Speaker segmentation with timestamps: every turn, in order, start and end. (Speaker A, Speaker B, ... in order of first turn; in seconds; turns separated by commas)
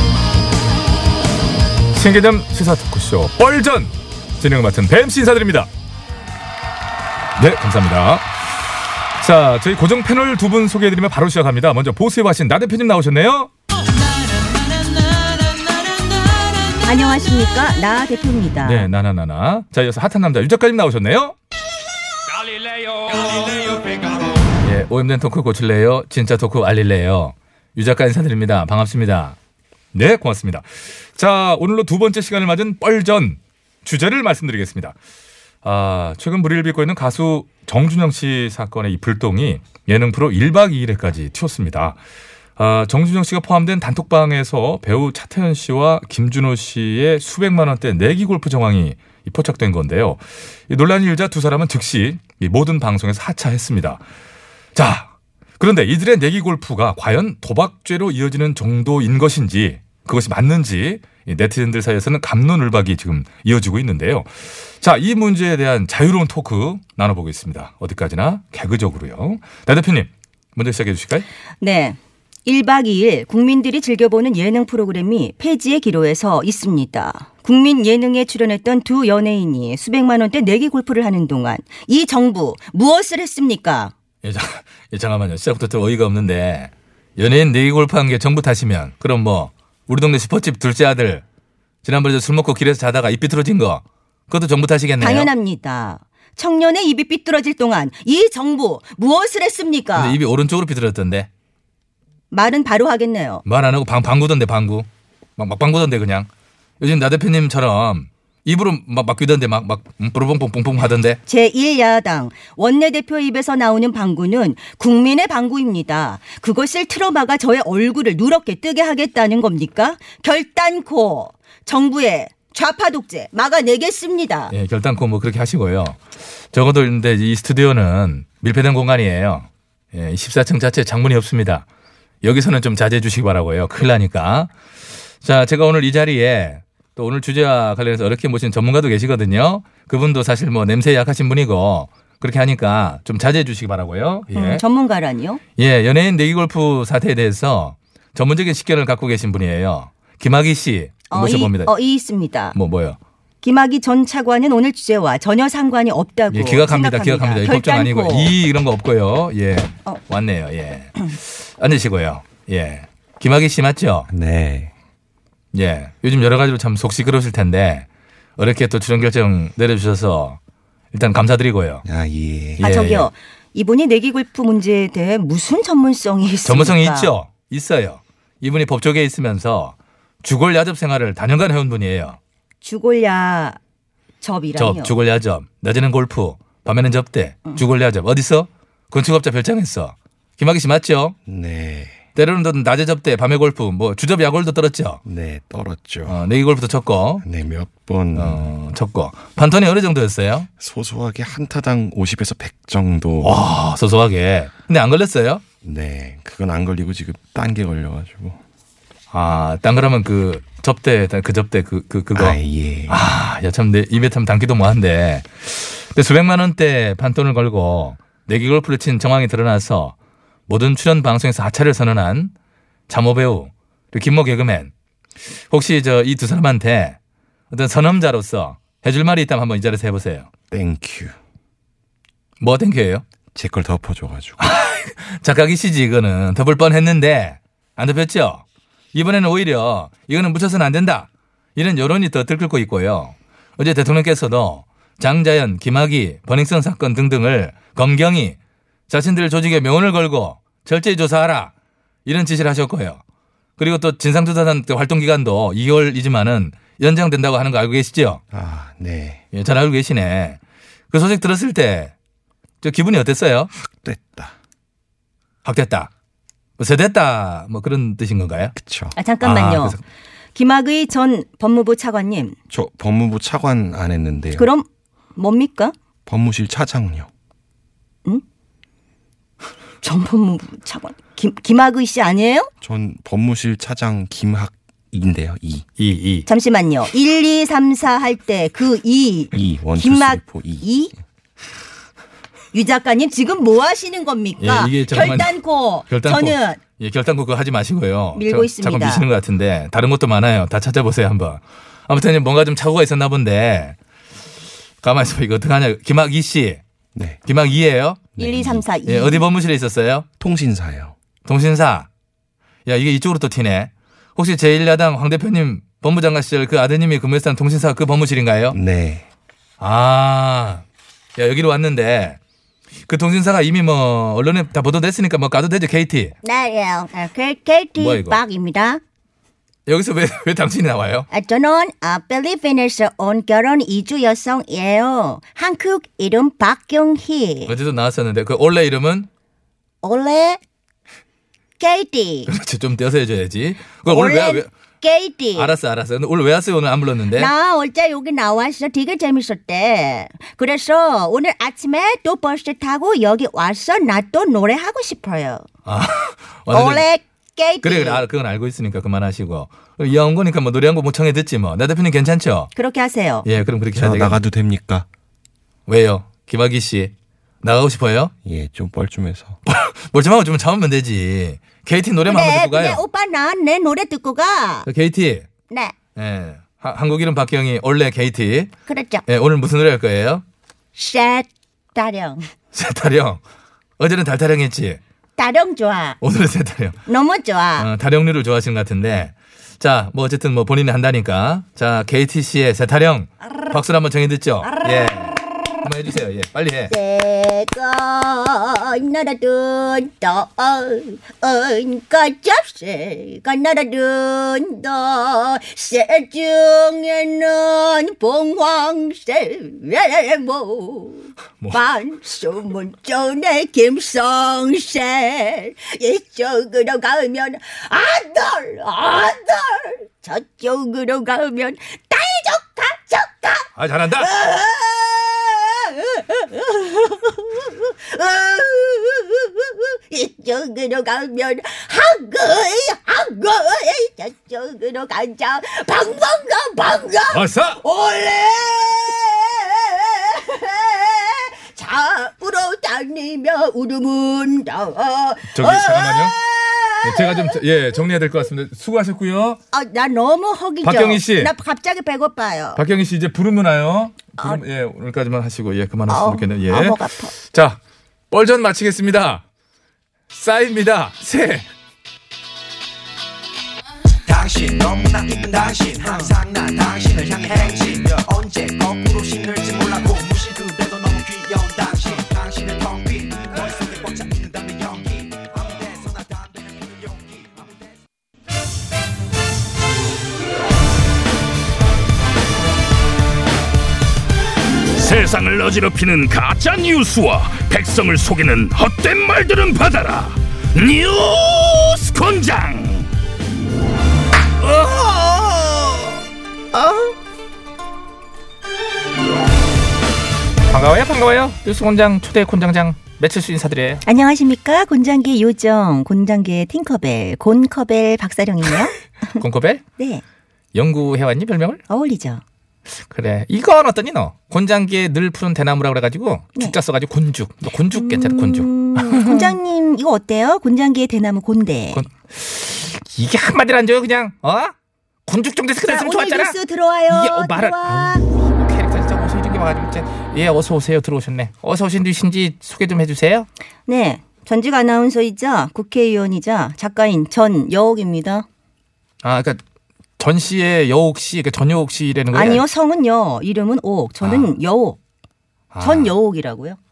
Speaker A: 1.9-5.7, Speaker A: 7.4-8.3, Speaker A: 9.2-13.5, Speaker B: 16.8-18.9, Speaker A: 18.6-21.4, Speaker A: 24.6-29.4, Speaker A: 29.9-35.0, Speaker A: 35.6-42.0, Speaker A: 42.6-54.0, Speaker A: 54.8-71.3, Speaker B: 71.6-83.9, Speaker A: 84.2-91.2, Speaker A: 91.8-95.3, Speaker B: 95.0-100.2, Speaker A: 100.0-101.3, Speaker B: 102.3-103.5, Speaker A: 103.5-106.3, Speaker A: 106.8-111.2, Speaker B: 111.3-124.5, Speaker A: 124.5-126.0, Speaker A: 126.5-131.7, Speaker A: 132.2-134.5, Speaker A: 135.2-144.6, Speaker B: 144.3-145.4, Speaker A: 145.6-151.7, Speaker B: 151.1-152.6, Speaker A: 152.5-153.0, Speaker B: 153.4-158.3, Speaker A: 156.3-164.1, Speaker C: 164.1-164.7, Speaker A: 165.5-167.9, Speaker A: 168.4-170.4, Speaker A: 170.9-171.8, Speaker C: 171.8-172.7, Speaker A: 172.6-173.1, Speaker B: 172.6-177.1, Speaker A: 176.4-182.2, Speaker B: 182.6-183.6, Speaker B: 184.2-184.9, Speaker A: 184.6-191.2, Speaker C: 191.3-192.0, Speaker A: 192.2-195.0, Speaker C: 195.1-196.2, Speaker A: 196.1-197.2, Speaker C: 197.2-198.5, Speaker A: 198.2-200.5, Speaker C: 200.6-203.4, Speaker A: 203.2-205.4, Speaker C: 205.6-208.4, Speaker A: 209.1-219.9, Speaker C: 212.2-213.0, Speaker A: 220.5-222.3, Speaker A: 222.9-224.7, Speaker A: 225.5-227.0, Speaker A: 227.5-230.3, Speaker C: 230.5-231.2, Speaker A: 232.4-233.0, Speaker C: 233.3-234.4, Speaker A: 234.4-248.4, Speaker A: 248.9-251.5, Speaker A: 252.1-253.0, Speaker A: 253.6-258.2, Speaker C: 258.3-259.2, Speaker A: 259.3-260.4, Speaker A: 260.9-261.9, Speaker A: 262.6-263.5, Speaker C: 263.6-264.3, Speaker A: 265.4-265.9, Speaker A: 266.6-268.6, Speaker C: 268.6-268.9, Speaker B: 268.9-269.8, Speaker A: 269.2-269.8, Speaker B: 270.4-272.4, Speaker C: 272.5-274.5, Speaker B: 274.4-275.7, Speaker C: 276.1-277.1, Speaker B: 279.8-282.5, Speaker C: 282.6-285.7, Speaker A: 285.8-286.3, Speaker B: 286.3-290.9, Speaker C: 289.3-290.7, Speaker B: 292.5-296.6, Speaker A: 294.4-295.4, Speaker A: 295.9-303.8, Speaker B: 298.2-299.1, Speaker A: 304.8-306.6, Speaker C: 306.9-307.2, Speaker A: 307.2-308.1, Speaker C: 308.2-308.6, Speaker B: 308.2-309.2, Speaker A: 308.9-310.1, Speaker C: 310.2-310.9, Speaker A: 311.2-311.9, Speaker A: 312.7-318.6, Speaker C: 318.5-319.1, Speaker A: 319.6-320.6, Speaker A: 321.2-322.2, Speaker A: 322.9-326.1, Speaker B: 326.2-328.8, Speaker A: 327.8-328.2, Speaker A: 329.7-331.1, Speaker B: 331.1-337.6, Speaker A: 337.5-339.1, Speaker B: 339.8-340.4, Speaker B: 341.6-342.3, Speaker A: 342.3-344.5, Speaker B: 343.9-345.5, Speaker A: 345.4-347.3, Speaker B: 347.1-355.5, Speaker A: 355.7-356.9, Speaker B: 356.5-358.0, Speaker A: 357.6-362.5, Speaker B: 362.6-363.3, Speaker A: 363.2-364.2, Speaker C: 363.8-364.9, Speaker A: 365.7-368.1, Speaker C: 368.2-369.4, Speaker A: 369.5-372.8, Speaker B: 372.1-374.7, Speaker A: 374.7-375.3, Speaker B: 375.5-375.8, Speaker A: 376.0-378.5, Speaker B: 378.7-379.0, Speaker A: 379.1-380.2, Speaker B: 380.8-382.2, Speaker A: 382.5-383.2, Speaker A: 383.8-384.8, Speaker B: 385.2-386.0, Speaker A: 386.0-386.8, Speaker B: 386.9-387.7, Speaker A: 387.6-396.7, Speaker B: 394.4-395.1, Speaker B: 396.7-447.4, Speaker A: 423.6-424.1, Speaker A: 437.1-437.6, Speaker A: 445.3-446.2, Speaker A: 446.8-449.4, Speaker B: 449.5-452.6, Speaker A: 450.6-451.3, Speaker A: 452.6-457.6, Speaker B: 455.9-457.1, Speaker A: 458.1-459.2, Speaker A: 460.1-461.5, Speaker D: 464.1-477.0, Speaker E: 484.7-492.9, Speaker A: 494.4-496.0, Speaker A: 496.5-496.9, Speaker A: 500.5-503.8, Speaker B: 503.9-509.2, Speaker A: 509.2-509.6, Speaker B: 509.8-510.0, Speaker A: 510.6-511.6, Speaker B: 511.7-512.2, Speaker A: 512.9-519.3, Speaker B: 517.7-521.8, Speaker A: 521.7-524.5, Speaker A: 525.1-526.4, Speaker B: 525.6-528.0, Speaker A: 526.9-533.3, Speaker B: 533.7-538.3, Speaker A: 539.0-539.4, Speaker A: 540.0-542.5, Speaker B: 542.1-544.8, Speaker A: 544.0-544.3, Speaker A: 545.5-545.9, Speaker B: 545.6-546.6